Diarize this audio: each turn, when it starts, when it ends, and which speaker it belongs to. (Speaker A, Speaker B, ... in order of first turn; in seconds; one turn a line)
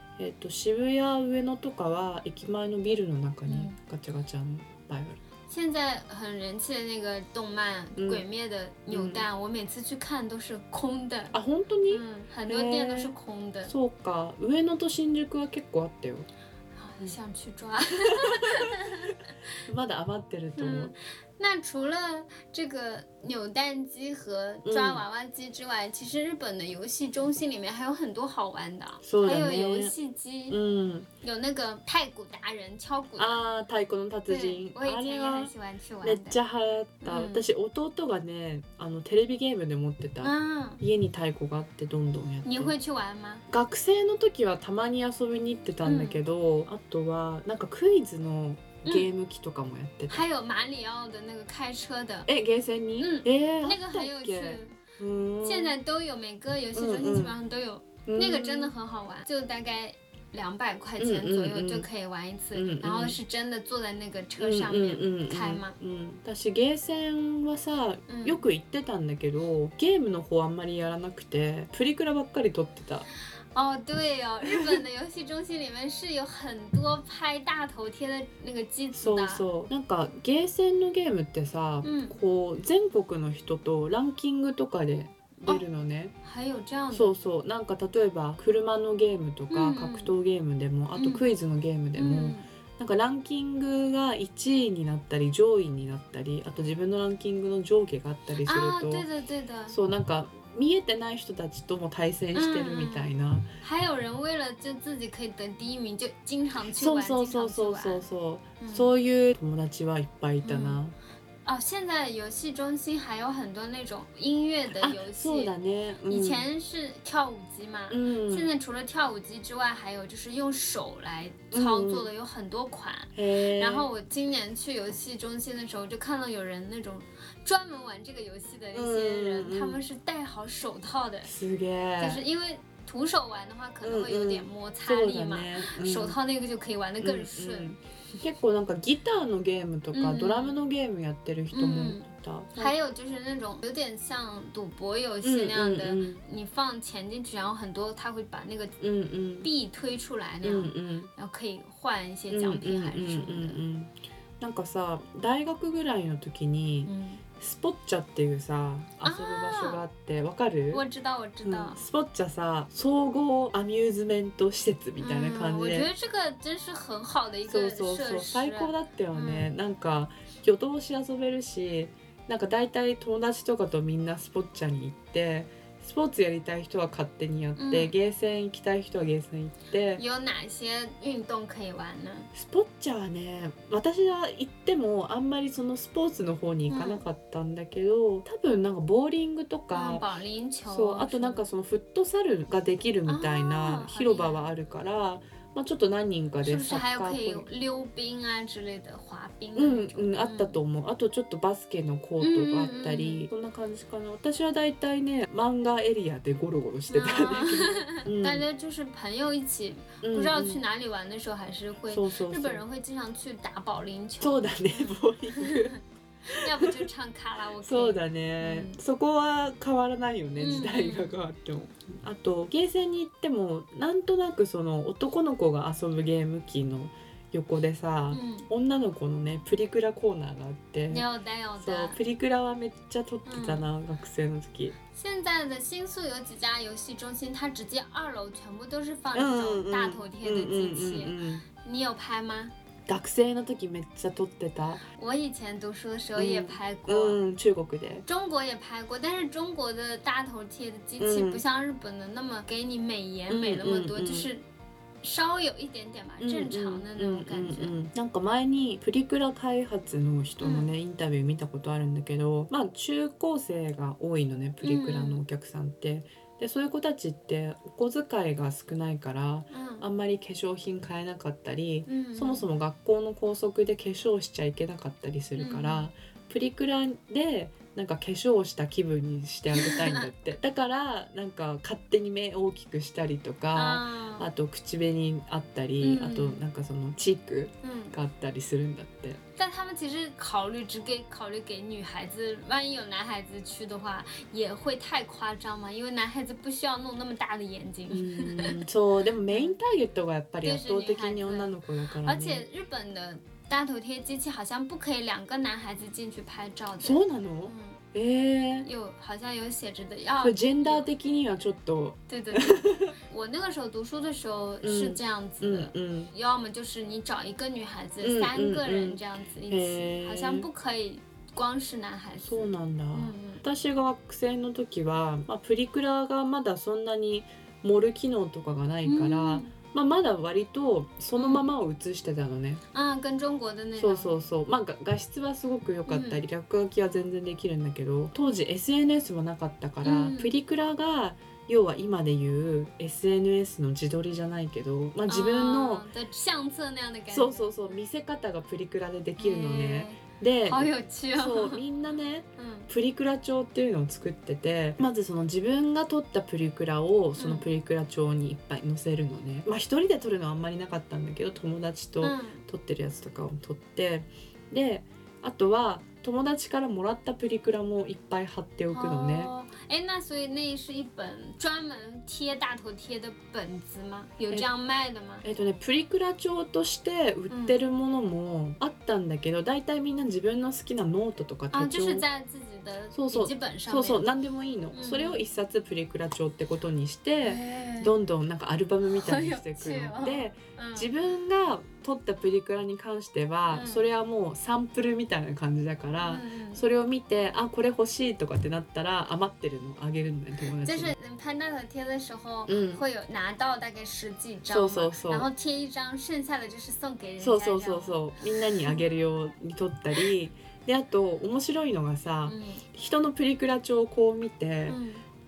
Speaker A: 0.2-5.2
Speaker B: 3.5-3.7
Speaker B: 5.5-11.3
Speaker A: 8.0-8.2
Speaker A: 8.9-9.2
Speaker A: 11.3-13.1
Speaker B: 11.9-13.7
Speaker A: 13.7-16.3
Speaker B: 16.7-19.2
Speaker A: 19.7-20.9
Speaker B: 20.6-30.6
Speaker A: 24.6-25.0
Speaker A: 29.0-29.9
Speaker A: 30.5-31.1
Speaker B: 31.2-33.4
Speaker A: 33.2-35.5
Speaker B: 34.3-36.4
Speaker A: 36.0-42.7
Speaker B: 37.0-37.5
Speaker B: 40.2-40.8
Speaker B: 42.4-43.4
Speaker A: 43.5-50.2
Speaker B: 45.8-46.2
Speaker B: 50.1-52.3
Speaker A: 52.2-55.8
Speaker B: 53.0-54.7
Speaker B: 55.4-65.8
Speaker A: 56.7-57.3
Speaker A: 58.1-58.7
Speaker A: 61.0-61.9
Speaker A: 62.5-63.1
Speaker A: 64.4-73.1
Speaker B: 68.1-68.4
Speaker B: 73.5-79.5
Speaker A: 78.9-86.1
Speaker B: 81.8-82.1
Speaker B: 86.2-87.2
Speaker A: 86.9-99.0
Speaker B: 89.5-90.2
Speaker B: 90.9-91.3
Speaker B: 91.9-92.5
Speaker B: 98.4-99.8
Speaker A: 99.7-103.5
Speaker B: 102.3-108.0
Speaker A: 106.6-110.9
Speaker B: 108.6-108.9
Speaker B: 110.4-110.8
Speaker B: 111.4-115.5
Speaker A: 114.7-116.4
Speaker B: 116.0-131.3
Speaker A: 117.9-118.5
Speaker A: 121.5-122.1
Speaker A: 123.1-123.9
Speaker A: 128.7-129.8
Speaker A: 131.2-132.2
Speaker B: 132.0-137.7
Speaker A: 133.8-136.2
Speaker A: 137.0-142.7
Speaker B: 139.9-140.6
Speaker B: 141.5-142.0
Speaker B: 142.6-148.8
Speaker A: 145.2-146.2
Speaker A: 148.8-149.5
Speaker B: 149.4-153.6
Speaker A: 150.4-151.1
Speaker A: 152.3-160.8
Speaker B: 156.8-157.2
Speaker B: 159.0-159.8
Speaker B: 160.7-161.8
Speaker A: 161.4-165.9
Speaker B: 165.0-169.5
Speaker A: 167.4-180.0
Speaker B: 177.6-177.9
Speaker B: 179.9-182.3
Speaker A: 182.3-190.0
Speaker B: 186.7-187.0
Speaker B: 189.7-191.4
Speaker A: 190.7-197.5
Speaker B: 193.1-194.5
Speaker B: 196.4-200.6
Speaker A: 199.6-208.4
Speaker B: 202.2-203.2
Speaker B: 206.9-218.8
Speaker A: 210.0-210.6
Speaker A: 211.9-212.6
Speaker A: 214.2-215.7
Speaker A: 216.3-216.8
Speaker A: 217.6-231.0
Speaker B: 220.4-221.2
Speaker B: 228.1-228.5
Speaker B: 230.9-232.0
Speaker A: 231.6-234.8
Speaker B: 233.2-233.7
Speaker B: 234.9-242.5
Speaker A: 239.1-241.4
Speaker A: 242.9-244.8
Speaker B: 244.9-247.2
Speaker A: 246.1-248.0
Speaker B: 248.0-254.4
Speaker A: 251.0-251.4
Speaker A: 253.3-254.3
Speaker B: 255.0-257.8
Speaker A: 256.2-289.2
Speaker B: 260.4-260.7
Speaker B: 264.6-265.2
Speaker B: 269.5-269.9
Speaker B: 271.9-272.4
Speaker B: 275.4-275.9
Speaker B: 279.5-280.1
Speaker B: 283.5-284.3
Speaker B: 285.8-286.4
Speaker B: 287.6-287.9
Speaker B: 289.4-298.6
Speaker A: 297.9-302.4
Speaker B: 299.3-299.6
Speaker B: 300.4-307.8
Speaker A: 306.8-308.7
Speaker B: 308.6-310.9
Speaker A: 310.2-312.9
Speaker B: 312.1-323.4
Speaker A: 314.6-316.1
Speaker A: 318.0-320.5
Speaker A: 322.2-332.6
Speaker B: 328.8-329.5
Speaker B: 331.1-331.5
Speaker B: 332.7-334.1
Speaker A: 333.8-345.9
Speaker B: 335.9-336.2
Speaker B: 339.8-340.3
Speaker B: 345.1-347.8
Speaker A: 347.1-369.3
Speaker B: 349.2-351.6
Speaker B: 352.4-352.7
Speaker B: 357.1-357.4
Speaker B: 362.0-362.4
Speaker B: 368.7-375.2
Speaker A: 375.2-382.1
Speaker B: 377.3-377.6
Speaker B: 381.5-384.1
Speaker A: 382.9-400.9
Speaker B: 384.7-385.2
Speaker B: 387.2-387.9
Speaker B: 388.8-390.9
Speaker B: 393.5-393.9
Speaker B: 396.0-396.6
Speaker B: 400.6-408.0
Speaker A: 402.5-402.8
Speaker A: 404.5-405.3
Speaker A: 407.2-414.8
Speaker B: 412.2-412.6
Speaker B: 414.7-415.0